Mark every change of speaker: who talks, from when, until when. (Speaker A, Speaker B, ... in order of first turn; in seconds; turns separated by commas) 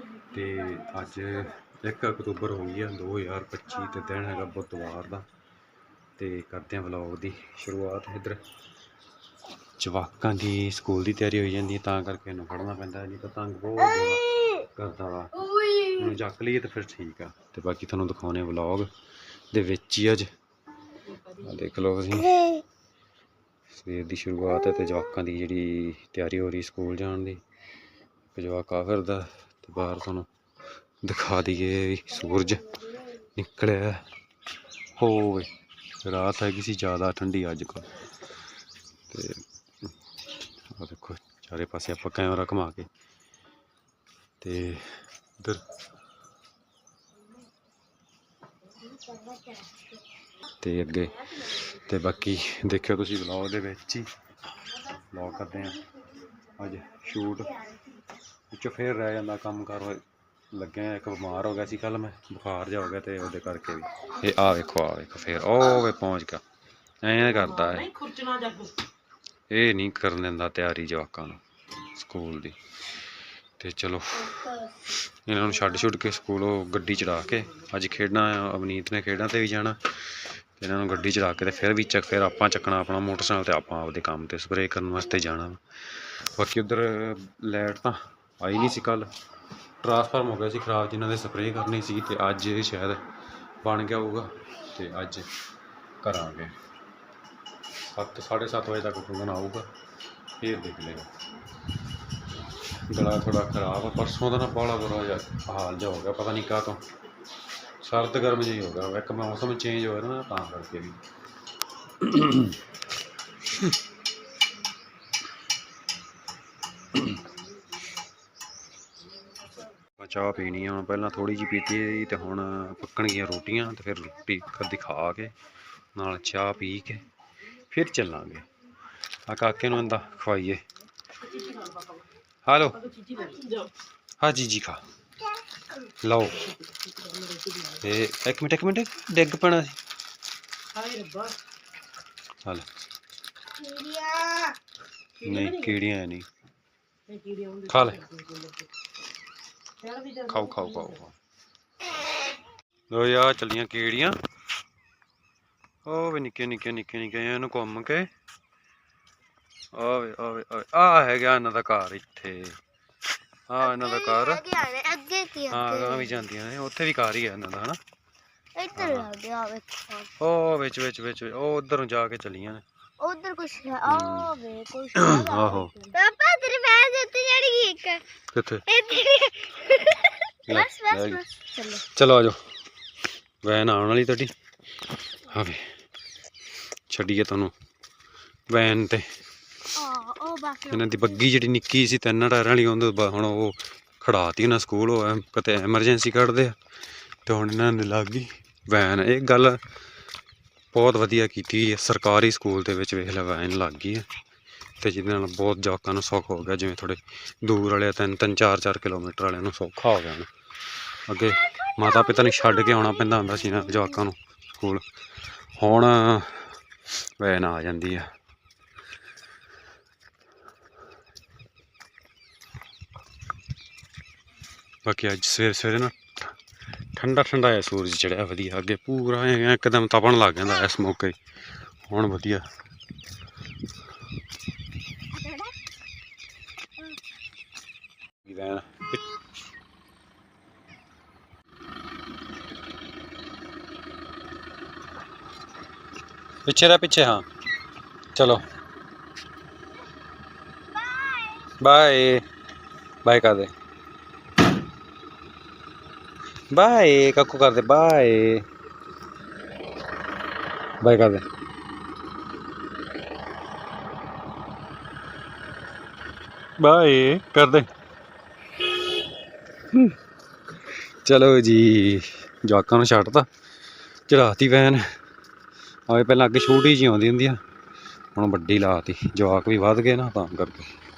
Speaker A: 0.3-5.2, Speaker A: 6.2-8.4, Speaker A: 9.8-18.9, Speaker A: 19.5-20.3, Speaker A: 21.2-22.6, Speaker A: 23.7-27.4, Speaker A: 28.3-30.3, Speaker A: 31.0-34.1, Speaker A: 35.0-37.9, Speaker A: 39.1-39.9, Speaker A: 40.7-42.9, Speaker A: 44.4-45.6, Speaker B: 48.9-49.8, Speaker A: 50.5-54.1, Speaker A: 54.8-55.9, Speaker A: 56.4-57.6, Speaker A: 58.5-66.4, Speaker A: 67.0-68.0, Speaker C: 67.9-68.7, Speaker A: 69.5-72.6, Speaker A: 73.6-89.1, Speaker A: 89.8-93.0, Speaker A: 93.6-95.3, Speaker A: 96.0-96.5, Speaker A: 97.9-99.7, Speaker A: 100.4-101.1, Speaker A: 102.9-106.9, Speaker A: 107.8-111.0, Speaker A: 112.0-112.6, Speaker A: 120.0-125.3, Speaker A: 125.9-127.0, Speaker A: 127.7-128.4, Speaker A: 129.3-130.6, Speaker C: 131.4-131.8, Speaker A: 132.4-132.9, Speaker C: 132.9-133.7, Speaker A: 134.2-134.8, Speaker A: 135.9-136.5, Speaker C: 137.0-137.8, Speaker A: 137.7-139.8, Speaker C: 140.7-141.4, Speaker B: 143.5-144.6, Speaker A: 145.2-146.3, Speaker C: 147.1-148.7, Speaker A: 147.7-148.1, Speaker C: 149.8-150.3, Speaker A: 150.2-151.1, Speaker A: 152.9-154.2, Speaker A: 155.8-158.1, Speaker A: 159.7-162.6, Speaker A: 163.5-164.5, Speaker B: 163.7-166.0, Speaker A: 165.5-167.8, Speaker B: 168.5-170.1, Speaker A: 168.8-169.1, Speaker A: 170.2-172.6, Speaker B: 173.0-178.1, Speaker A: 173.8-174.4, Speaker A: 174.9-175.9, Speaker A: 178.3-178.7, Speaker B: 178.7-181.8, Speaker A: 180.5-182.6, Speaker A: 183.4-184.3, Speaker A: 185.1-185.8, Speaker A: 186.9-187.5, Speaker A: 188.5-189.1, Speaker B: 189.8-191.1, Speaker A: 190.7-196.6, Speaker A: 197.2-199.6, Speaker A: 200.7-204.1, Speaker A: 204.8-210.3, Speaker A: 211.1-214.8, Speaker A: 215.5-218.1, Speaker A: 224.8-226.3, Speaker A: 226.9-231.2, Speaker A: 231.9-232.5, Speaker A: 238.2-239.0, Speaker A: 246.4-247.3, Speaker A: 248.1-248.4, Speaker B: 250.8-251.5, Speaker A: 251.6-252.2, Speaker A: 253.0-253.5, Speaker A: 256.5-258.5, Speaker A: 260.8-261.2, Speaker A: 266.6-267.7, Speaker A: 270.7-273.3, Speaker A: 274.1-275.0, Speaker A: 275.9-277.4, Speaker A: 278.1-280.8